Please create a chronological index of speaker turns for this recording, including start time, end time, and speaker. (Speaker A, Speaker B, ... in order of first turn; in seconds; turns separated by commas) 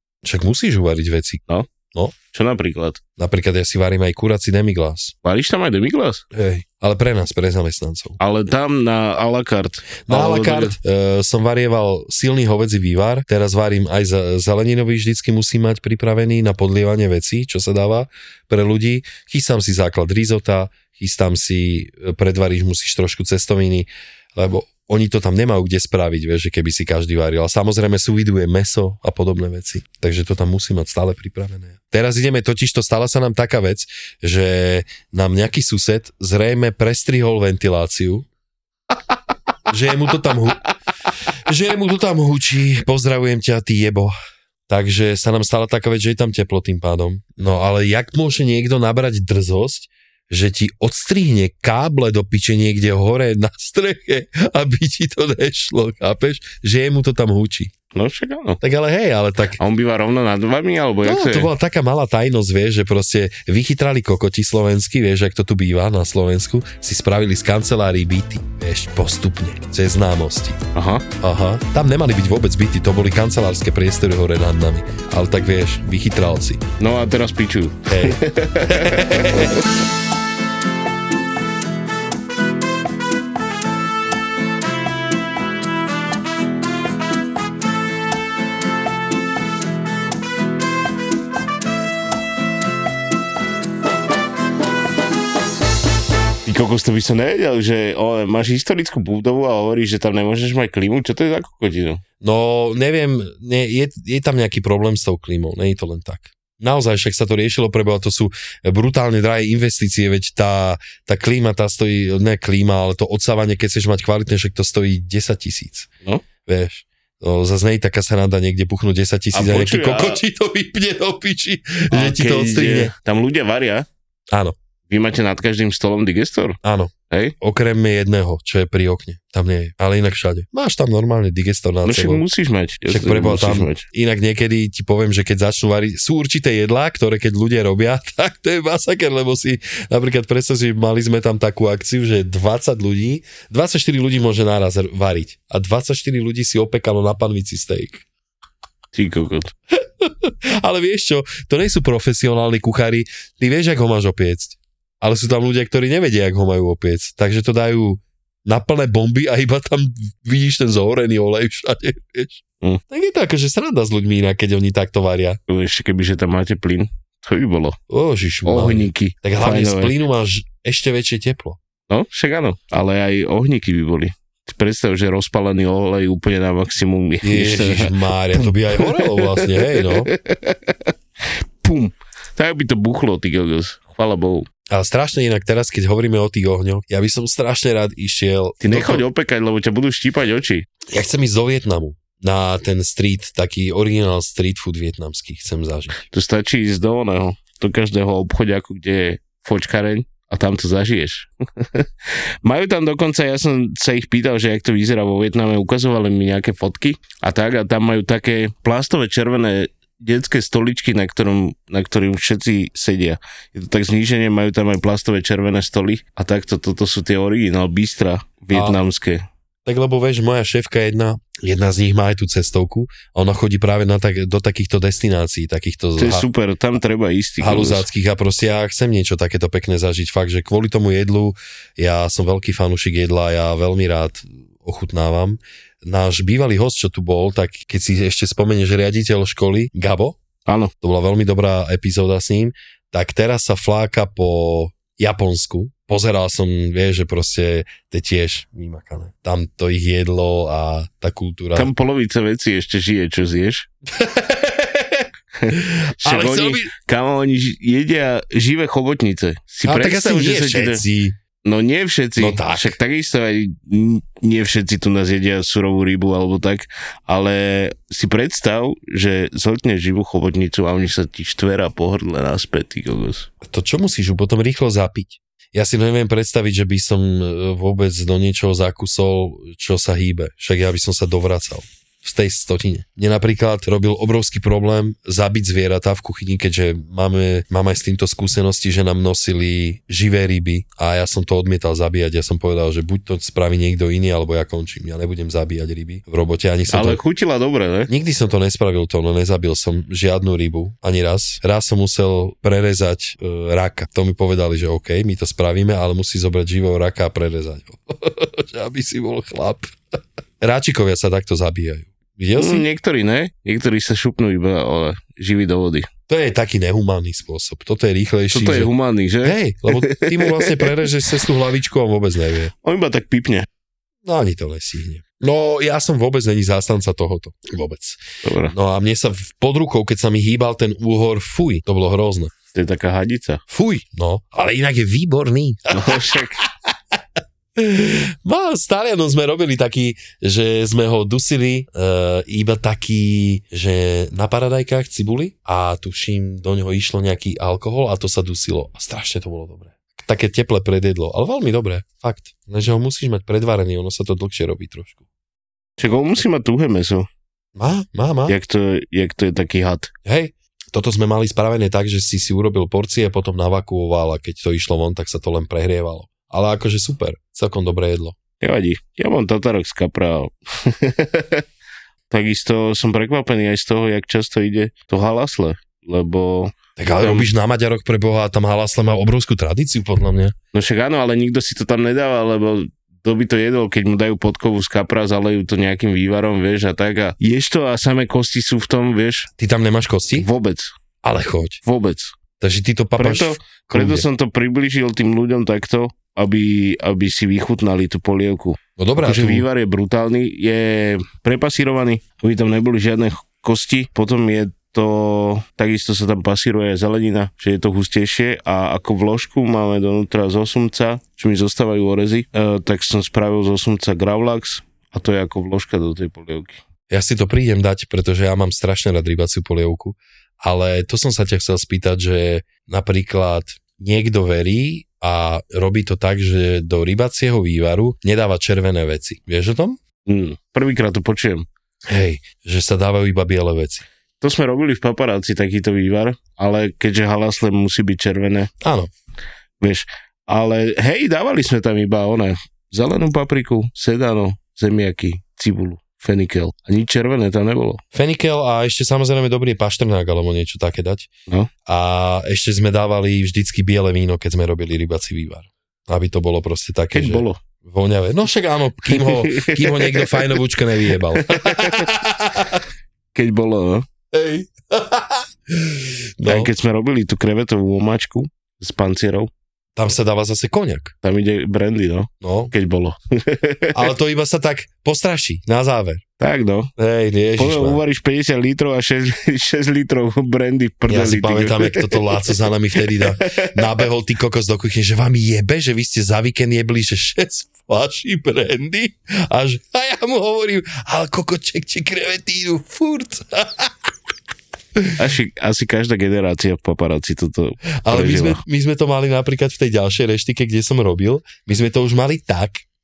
Speaker A: 0.2-1.4, Speaker B: 2.3-3.0, Speaker A: 3.2-5.1, Speaker B: 5.2-6.2, Speaker A: 6.3-8.2, Speaker B: 8.2-10.8, Speaker A: 10.1-38.3, Speaker A: 39.7-40.6, Speaker A: 41.5-44.1, Speaker A: 44.7-57.7, Speaker B: 57.9-58.6, Speaker A: 58.6-59.6, Speaker B: 59.6-61.5, Speaker A: 61.0-70.6, Speaker B: 70.8-71.0, Speaker A: 71.2-76.6, Speaker B: 76.8-79.6, Speaker A: 77.9-79.6, Speaker B: 96.5-102.0, Speaker A: 102.2-115.9, Speaker A: 116.5-122.9, Speaker B: 119.3-120.2, Speaker B: 121.9-123.9, Speaker A: 124.3-124.6, Speaker B: 124.9-126.6, Speaker A: 126.6-132.2, Speaker B: 131.8-133.8, Speaker A: 132.9-148.0, Speaker B: 148.9-149.5, Speaker A: 149.8-165.4, Speaker B: 165.5-167.8, Speaker A: 167.9-171.6, Speaker B: 168.4-169.9, Speaker B: 171.9-180.7, Speaker A: 177.2-180.1, Speaker B: 181.6-184.5, Speaker A: 184.7-189.0, Speaker B: 188.6-190.7, Speaker A: 190.9-196.0, Speaker B: 196.1-201.9, Speaker B: 202.4-219.2, Speaker A: 218.5-218.8, Speaker A: 219.7-226.3, Speaker B: 226.0-227.9, Speaker A: 227.4-240.2, Speaker B: 240.5-240.7, Speaker A: 240.8-251.7, Speaker B: 251.6-253.7, Speaker A: 253.9-256.7, Speaker B: 255.4-260.8, Speaker A: 259.6-261.2, Speaker B: 261.4-273.3, Speaker A: 262.2-262.8, Speaker A: 273.4-297.0, Speaker B: 296.7-297.9, Speaker A: 297.9-309.8, Speaker A: 310.4-312.7, Speaker B: 312.4-315.9, Speaker A: 316.1-318.7, Speaker B: 318.3-320.8, Speaker A: 319.2-322.5, Speaker B: 322.6-323.5, Speaker A: 324.0-332.3, Speaker B: 328.2-328.6, Speaker B: 332.5-333.4, Speaker A: 333.5-336.0, Speaker B: 335.7-336.4, Speaker A: 337.6-355.0, Speaker B: 355.8-357.1, Speaker A: 357.6-358.4, Speaker B: 358.3-359.9, Speaker A: 360.1-368.2, Speaker B: 368.4-371.4, Speaker B: 372.1-377.3, Speaker A: 376.8-380.4, Speaker B: 380.5-389.3, Speaker A: 389.4-390.3, Speaker B: 390.2-390.7, Speaker A: 391.0-391.6, Speaker B: 391.6-392.1, Speaker A: 392.4-394.1, Speaker B: 393.0-416.6, Speaker A: 398.8-399.4, Speaker A: 416.9-429.8, Speaker B: 430.1-431.5, Speaker A: 431.9-433.9, Speaker B: 434.2-438.5, Speaker A: 438.6-438.9, Speaker B: 439.6-447.8, Speaker A: 447.9-451.1, Speaker A: 451.7-462.6, Speaker B: 456.9-457.4, Speaker B: 459.0-460.3, Speaker B: 461.3-461.9, Speaker B: 463.1-463.9, Speaker A: 464.1-466.5, Speaker B: 466.2-469.3, Speaker A: 469.8-470.9, Speaker B: 471.0-473.8, Speaker A: 472.2-472.5, Speaker A: 473.7-476.0, Speaker B: 476.2-476.7, Speaker A: 476.8-477.8, Speaker B: 477.4-483.8, Speaker A: 480.9-493.9, Speaker B: 495.0-498.4, Speaker A: 497.9-502.6